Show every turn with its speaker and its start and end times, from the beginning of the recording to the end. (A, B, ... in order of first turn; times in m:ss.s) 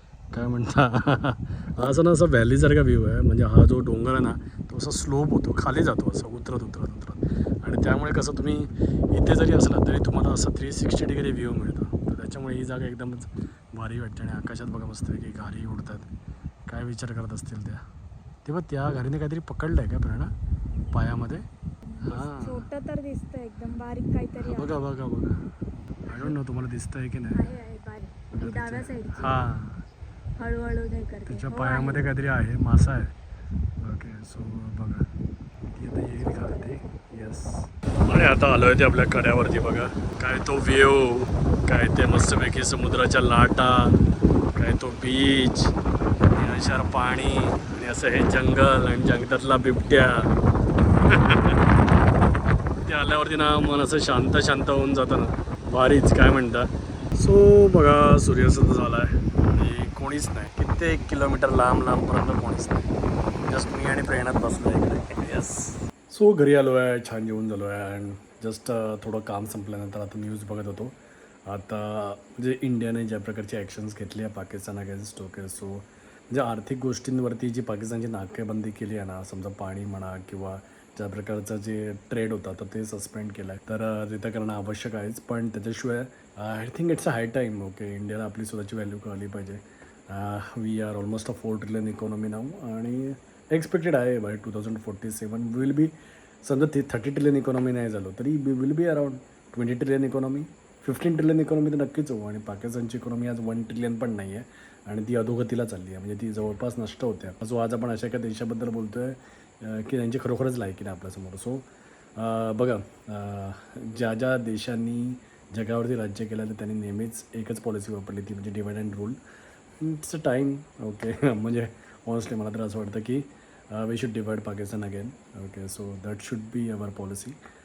0:00.3-0:16.1 A
0:16.7-0:17.8 A
0:18.4-0:20.3 A
0:20.9-0:21.4 A
0:21.9-0:24.9 B
0:22.1-0:22.6 A
0:24.4-0:25.4 A
0:26.0-0:27.4 A
0:26.1-0:26.4 B
0:27.3-0:29.5 B
0:28.3-0:29.8 A
0:30.4-0:32.1 B
0:31.3-0:33.1 A
0:33.8-0:35.0 A
0:35.7-0:44.0 A
0:44.6-0:45.8 A
0:46.3-0:50.3 A
0:51.0-0:51.6 A
0:52.9-1:02.8 A
1:03.5-1:10.9 A
1:11.5-1:51.6 A
1:52.2-1:59.2 A
1:59.8-2:07.4 A